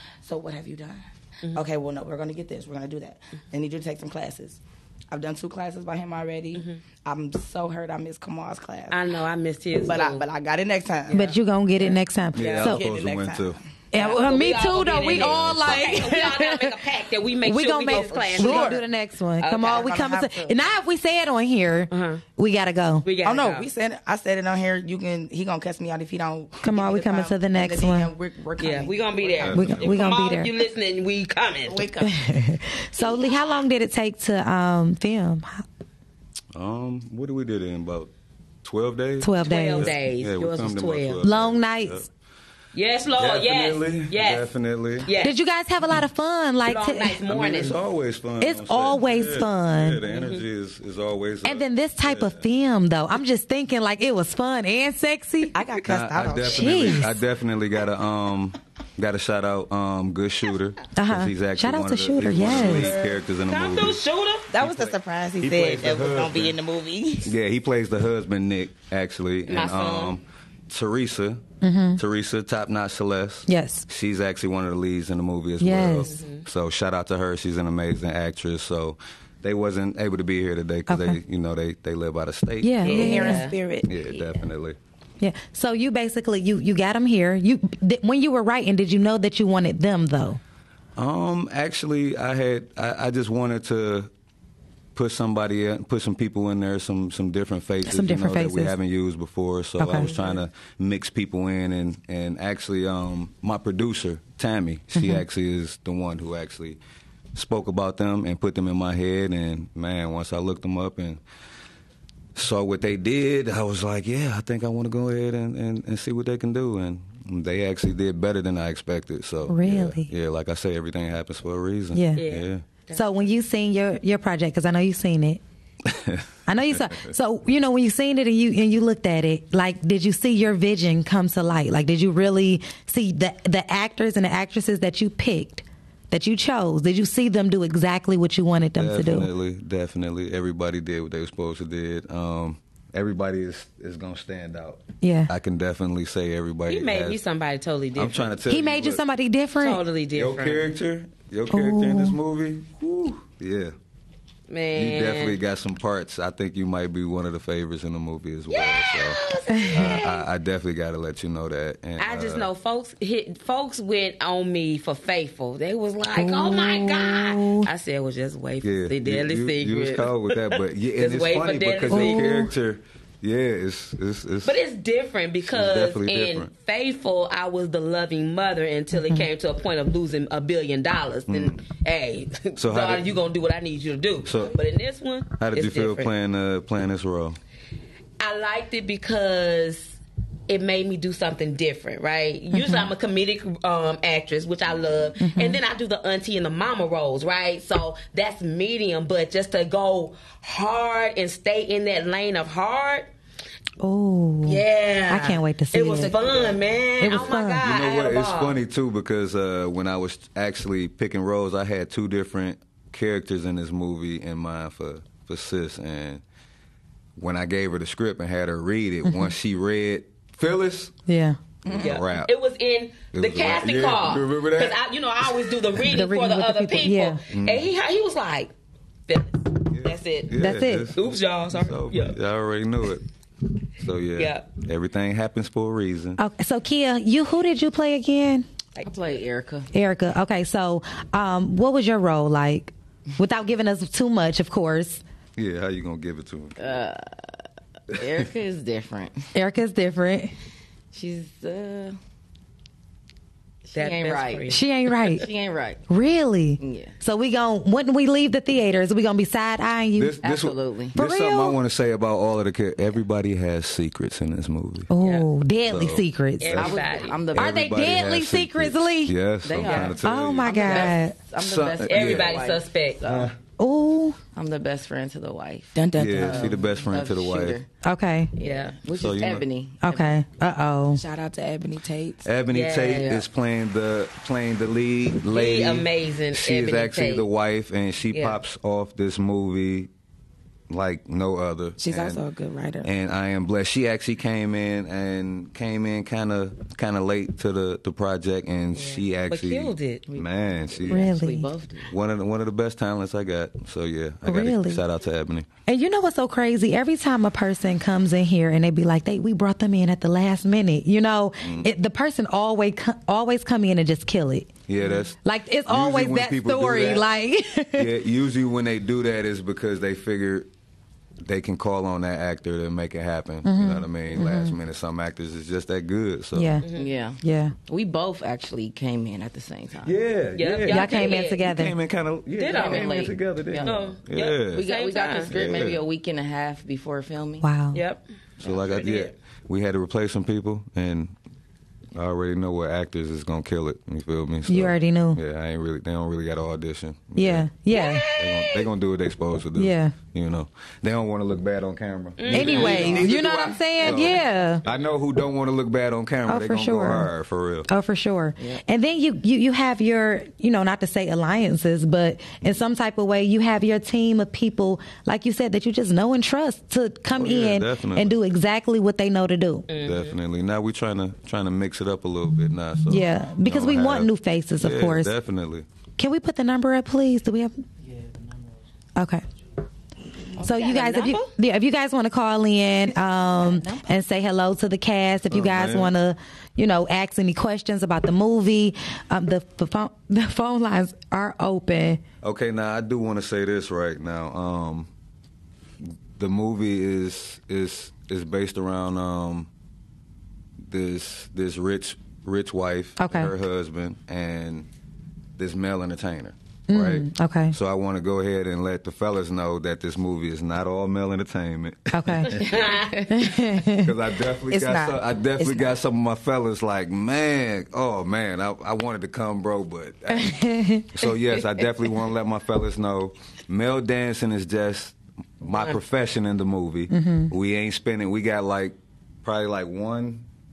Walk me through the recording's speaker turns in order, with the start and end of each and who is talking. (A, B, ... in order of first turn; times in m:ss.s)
0:00.2-0:09.0 A
0:06.6-0:06.8 B
0:08.9-0:10.2 B
0:09.8-0:11.2 A
0:11.1-0:11.4 B
0:11.1-0:12.8 C
0:12.4-0:13.6 D
0:12.4-0:12.6 B
0:12.4-0:13.6 A
0:13.9-0:16.7 C
0:13.9-0:18.8 B
0:15.1-0:16.0 D
0:17.4-0:23.1 C
0:17.9-0:18.8 A
0:19.4-0:19.9 B
0:19.7-0:20.6 A
0:21.9-0:22.2 B
0:23.0-0:23.7 B
0:23.2-0:29.9 A
0:26.6-0:28.1 C
0:28.6-0:31.9 B
0:29.4-0:30.0 D
0:29.5-0:30.5 C
0:31.7-0:32.1 A
0:32.0-0:35.6 C
0:36.5-0:38.1 D
0:38.6-0:42.1 D
0:39.2-0:39.9 C
0:39.4-0:41.2 B
0:41.2-0:42.1 C
0:42.7-0:44.5 B
0:43.2-0:45.1 D
0:45.0-0:45.4 B
0:45.2-0:47.2 C
0:46.6-0:47.8 B
0:47.3-0:52.4 D
0:48.4-0:50.0 C
0:50.1-0:50.4 B
0:51.4-0:55.6 C
0:55.5-0:57.1 A
0:55.8-1:04.0 D
0:56.4-0:57.2 C
1:01.0-1:03.0 C
1:02.4-1:03.1 A
1:03.5-1:04.5 B
1:04.5-1:07.3 A
1:04.6-1:06.6 D
1:07.2-1:11.4 D
1:09.5-1:10.2 B
1:11.6-1:12.0 C
1:12.0-1:23.2 D
1:13.5-1:13.9 C
1:15.6-1:16.1 C
1:16.0-1:16.4 B
1:20.9-1:21.2 C
1:22.6-1:23.5 C
1:22.8-1:23.6 B
1:22.8-1:24.3 A
1:23.8-1:24.8 D
1:25.2-1:30.4 C
1:31.0-1:34.1 D
1:35.0-1:46.8 D
1:37.9-1:38.7 C
1:39.8-1:40.1 C
1:45.0-1:45.2 C
1:47.3-1:51.2 D
1:52.4-2:02.6 D
1:59.5-2:00.1 C
2:01.9-2:02.2 C
2:02.2-2:03.3 B
2:02.9-2:05.4 C
2:05.9-2:07.1 D
2:06.5-2:19.3 C
2:18.8-2:27.2 D
2:25.0-2:25.3 C
2:26.7-2:28.4 B
2:28.0-2:29.0 D
2:28.5-2:29.8 C
2:29.6-2:30.7 B
2:30.2-2:33.8 D
2:31.5-2:32.2 C
2:34.5-2:35.4 B
2:34.7-2:42.5 D
2:38.5-2:40.3 B
2:39.5-2:39.9 C
2:42.0-2:52.4 B
2:46.2-2:47.7 C
2:48.6-2:54.6 D
2:51.9-2:52.5 C
2:54.4-3:06.1 B
2:55.5-2:56.5 D
2:59.0-2:59.2 C
3:01.3-3:01.6 D
3:02.6-3:03.2 D
3:04.2-3:04.6 D
3:05.4-3:07.4 D
3:08.2-3:10.0 B
3:10.5-3:23.1 B
3:12.5-3:12.9 C
3:15.2-3:15.6 C
3:23.8-3:26.3 C
3:24.5-3:28.6 B
3:27.0-3:27.6 C
3:27.0-3:36.2 D
3:37.2-3:41.0 D
3:39.0-3:39.3 C
3:41.1-3:41.4 C
3:41.6-3:42.3 D
3:41.7-3:48.5 B
3:43.1-3:45.6 D
3:45.9-3:47.2 C
3:47.3-3:47.7 D
3:49.1-3:50.4 B
3:49.7-3:53.0 D
3:50.4-3:50.9 C
3:50.9-3:52.2 B
3:53.8-3:56.2 D
3:54.2-3:54.5 B
3:56.2-3:58.5 C
3:58.8-3:59.7 E
3:59.7-4:05.0 C
4:05.4-4:06.7 D
4:06.6-4:07.2 E
4:07.9-4:09.3 E
4:09.3-4:10.3 C
4:10.9-4:12.0 E
4:13.7-4:14.6 E
4:13.7-4:15.3 B
4:14.5-4:15.2 C
4:15.2-4:15.8 E
4:15.9-4:20.2 C
4:16.6-4:17.0 E
4:20.0-4:24.9 D
4:20.2-4:21.0 E
4:21.0-4:21.6 C
4:24.9-4:26.6 C
4:25.0-4:25.3 B
4:25.7-4:32.4 D
4:26.4-4:27.3 B
4:26.5-4:27.6 E
4:27.4-4:29.2 C
4:29.4-4:33.3 E
4:29.6-4:29.9 B
4:30.0-4:31.2 C
4:31.8-4:33.0 B
4:33.0-4:33.3 D
4:33.6-4:34.2 C
4:34.4-4:37.7 E
4:35.8-4:36.6 A
4:36.0-4:37.6 D
4:37.8-4:38.3 C
4:38.4-4:40.2 E
4:38.4-4:38.7 B
4:38.9-4:39.5 D
4:39.8-4:41.0 C
4:41.0-4:42.3 A
4:42.2-4:49.9 D
4:42.5-4:43.2 B
4:45.3-4:47.3 B
4:48.1-4:48.4 B
4:50.7-4:52.2 D
4:51.8-4:52.9 A
4:52.8-5:01.1 D
4:58.7-5:00.0 B
5:00.1-5:01.9 E
5:00.9-5:01.5 C
5:01.9-5:05.5 D
5:04.2-5:04.8 C
5:05.7-5:14.5 C
5:11.4-5:11.7 D
5:14.7-5:17.1 D
5:15.2-5:17.9 C
5:17.8-5:20.5 D
5:21.2-5:26.6 D
5:23.4-5:24.6 C
5:26.4-5:26.7 C
5:26.6-5:26.9 B
5:26.8-5:30.0 E
5:27.2-5:27.5 C
5:29.8-5:34.7 D
5:30.4-5:31.4 B
5:30.7-5:31.8 C
5:32.3-5:35.7 B
5:32.5-5:34.0 E
5:34.5-5:37.5 E
5:35.3-5:35.8 D
5:37.4-5:37.8 C
5:37.7-5:38.0 B
5:38.4-5:41.1 D
5:38.6-5:39.1 B
5:41.9-5:47.5 D
5:44.5-5:45.2 C
5:47.2-5:48.1 C
5:47.7-5:48.7 B
5:48.1-5:57.7 D
5:49.6-5:50.0 C
5:52.2-5:53.1 B
5:52.3-5:54.6 C
5:52.4-5:53.0 A
5:53.8-5:54.2 B
5:56.3-5:57.1 C
5:57.7-6:09.7 C
6:07.2-6:08.2 D
6:09.7-6:10.2 B
6:09.8-6:15.7 D
6:12.9-6:15.1 C
6:16.0-6:17.6 C
6:19.0-6:19.2 C
6:20.4-6:21.3 B
6:20.4-6:32.0 C
6:25.3-6:25.9 D
6:32.2-6:34.9 D
6:35.8-6:39.5 D
6:40.6-6:44.7 D
6:43.0-6:43.3 C
6:45.4-6:52.9 D
6:46.7-6:47.6 C
6:51.9-6:52.4 C
6:52.3-6:53.3 B
6:53.1-6:53.9 C
6:53.7-7:10.3 D
6:54.5-6:55.7 A
7:00.1-7:00.9 C
7:05.5-7:05.8 B
7:06.9-7:07.3 C